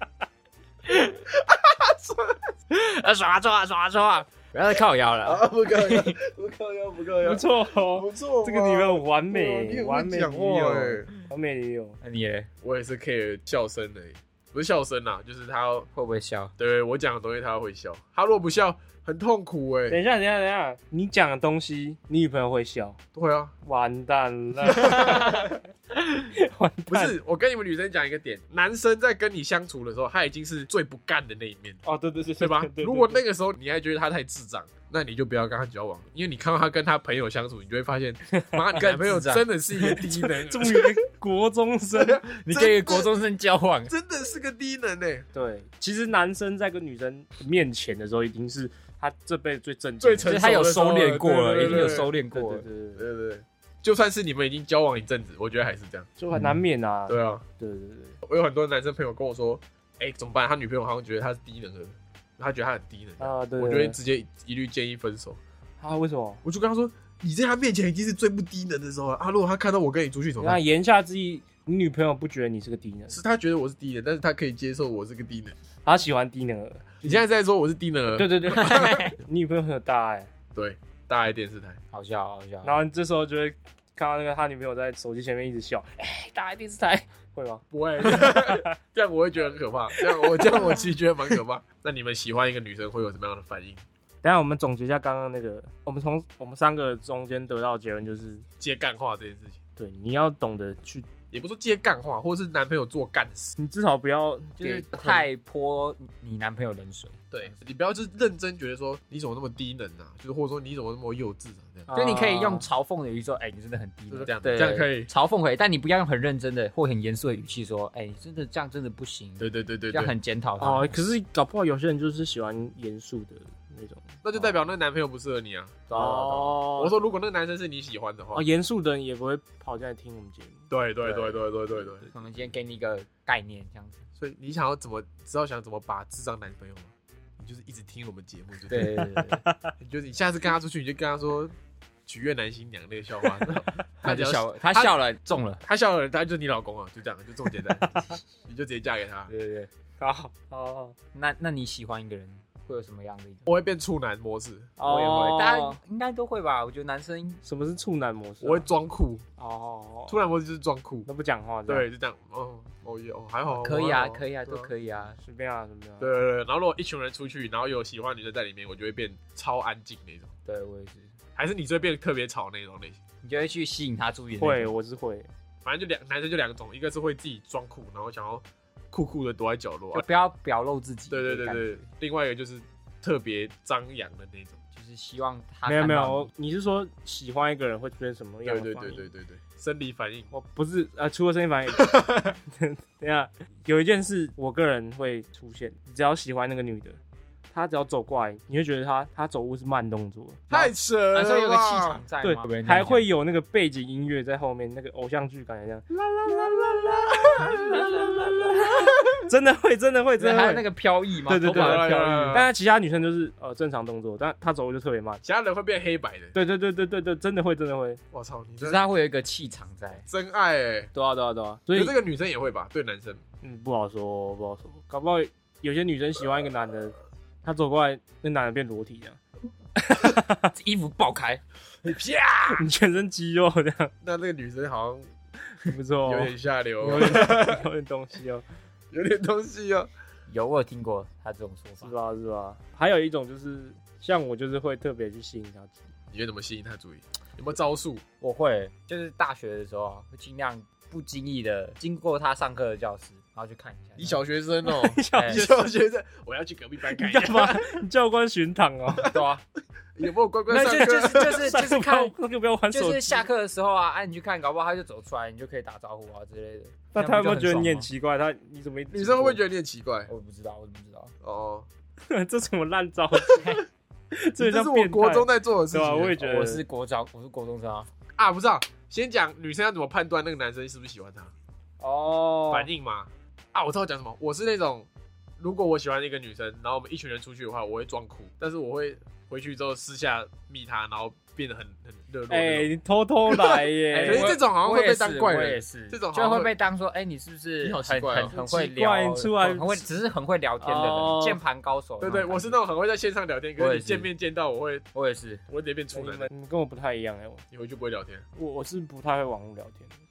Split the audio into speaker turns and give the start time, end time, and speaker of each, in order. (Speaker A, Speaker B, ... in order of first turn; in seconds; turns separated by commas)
Speaker A: 1.1-2.4, Speaker B: 2.7-6.2, Speaker A: 5.2-11.1, Speaker C: 7.2-11.9, Speaker B: 12.0-12.5, Speaker A: 12.6-15.9, Speaker B: 15.9-16.5, Speaker A: 16.6-20.0, Speaker C: 19.9-23.0, Speaker A: 23.1-23.5, Speaker C: 23.6-27.1, Speaker A: 24.7-25.4, Speaker A: 26.9-31.8, Speaker C: 31.8-33.2, Speaker A: 32.4-41.0, Speaker C: 38.3-38.6, Speaker B: 38.7-39.9, Speaker C: 39.9-42.2, Speaker A: 42.0-43.1, Speaker B: 42.3-43.9, Speaker A: 43.9-45.3, Speaker C: 45.3-50.4, Speaker A: 50.0-52.1, Speaker B: 50.2-52.6, Speaker C: 51.5-53.0, Speaker A: 53.0-56.1, Speaker C: 56.2-58.2, Speaker A: 57.1-57.4, Speaker A: 58.2-65.4, Speaker C: 63.2-64.0, Speaker C: 65.8-66.4, Speaker A: 66.4-70.6, Speaker C: 70.4-73.2, Speaker A: 73.1-75.5, Speaker C: 75.8-77.2, Speaker A: 77.0-79.0, Speaker C: 78.1-80.3, Speaker B: 78.5-79.1, Speaker A: 80.5-81.8, Speaker B: 81.9-82.8, Speaker C: 82.6-88.7, Speaker A: 87.7-93.8, Speaker C: 89.9-90.8, Speaker C: 94.2-98.4, Speaker A: 98.6-99.6, Speaker C: 99.8-101.0, Speaker A: 101.3-103.5, Speaker C: 103.5-105.2, Speaker B: 104.6-107.5, Speaker A: 107.3-111.9, Speaker C: 111.9-112.6, Speaker B: 111.9-121.1, Speaker A: 114.1-115.1, Speaker A: 119.4-120.1, Speaker C: 120.6-124.1, Speaker A: 124.2-128.4, Speaker B: 125.9-126.5, Speaker C: 125.9-127.0, Speaker C: 128.3-130.6, Speaker A: 130.7-132.1, Speaker B: 131.0-131.4, Speaker B: 132.0-134.0, Speaker A: 134.2-139.0, Speaker B: 138.7-139.4, Speaker C: 138.8-139.7, Speaker A: 139.8-141.5, Speaker A: 142.1-145.0, Speaker B: 144.0-145.6, Speaker A: 145.6-149.3, Speaker B: 149.3-149.7, Speaker C: 150.0-150.9, Speaker B: 151.1-153.5, Speaker A: 153.4-155.5, Speaker C: 154.8-155.8, Speaker B: 155.3-157.4, Speaker C: 157.4-158.7, Speaker A: 158.4-159.2, Speaker C: 159.4-160.2, Speaker A: 160.1-161.1, Speaker C: 161.1-161.8, Speaker A: 161.7-164.7, Speaker B: 163.5-165.2, Speaker C: 165.2-166.1, Speaker A: 166.0-170.3, Speaker B: 170.4-171.2, Speaker A: 171.3-173.0, Speaker B: 173.2-174.8, Speaker C: 174.4-175.3, Speaker A: 175.6-180.0, Speaker B: 179.9-181.8, Speaker A: 181.1-184.6, Speaker B: 184.7-186.3, Speaker C: 185.7-189.1, Speaker A: 188.4-190.3, Speaker C: 190.3-197.0, Speaker A: 191.8-192.3, Speaker C: 197.5-200.5, Speaker A: 200.5-202.0, Speaker B: 200.5-203.1, Speaker C: 202.2-205.8, Speaker A: 205.9-209.2, Speaker B: 206.4-208.8, Speaker C: 209.2-210.6, Speaker B: 210.2-212.4, Speaker C: 211.3-215.2, Speaker A: 211.4-212.5, Speaker A: 215.2-216.3, Speaker C: 216.3-218.0, Speaker A: 218.1-218.8, Speaker B: 218.6-220.1, Speaker A: 220.1-220.9, Speaker C: 220.9-221.9, Speaker A: 221.7-223.2, Speaker C: 223.4-229.2, Speaker C: 229.8-230.5, Speaker B: 230.6-231.4, Speaker A: 231.8-232.6, Speaker C: 232.5-233.9, Speaker A: 234.0-235.1, Speaker C: 235.6-238.4, Speaker A: 236.1-237.6, Speaker A: 238.9-239.9, Speaker B: 240.3-241.9, Speaker C: 241.8-245.8, Speaker A: 246.1-248.0, Speaker B: 248.2-254.2, Speaker A: 254.0-257.8, Speaker C: 254.6-255.7, Speaker B: 255.1-255.4, Speaker C: 256.8-259.1, Speaker B: 259.1-259.4, Speaker A: 259.9-261.5, Speaker B: 260.5-262.1, Speaker C: 260.6-263.3, Speaker B: 262.7-267.9, Speaker C: 266.9-269.4, Speaker A: 268.9-270.1, Speaker B: 270.1-271.1, Speaker A: 271.2-271.6, Speaker C: 272.1-273.6, Speaker B: 273.3-273.6, Speaker C: 274.1-276.6, Speaker A: 274.4-276.2, Speaker B: 276.2-277.9, Speaker A: 278.2-281.3, Speaker C: 281.8-282.7, Speaker A: 282.5-284.9, Speaker A: 285.4-292.7, Speaker C: 292.3-294.4, Speaker A: 293.4-296.5, Speaker B: 293.9-302.6, Speaker A: 297.6-298.4, Speaker C: 298.3-299.8, Speaker C: 300.6-301.4, Speaker A: 302.0-304.9, Speaker B: 303.6-304.1, Speaker B: 304.9-305.4, Speaker A: 305.5-306.3, Speaker C: 305.9-307.4, Speaker A: 307.5-308.2, Speaker C: 308.3-309.9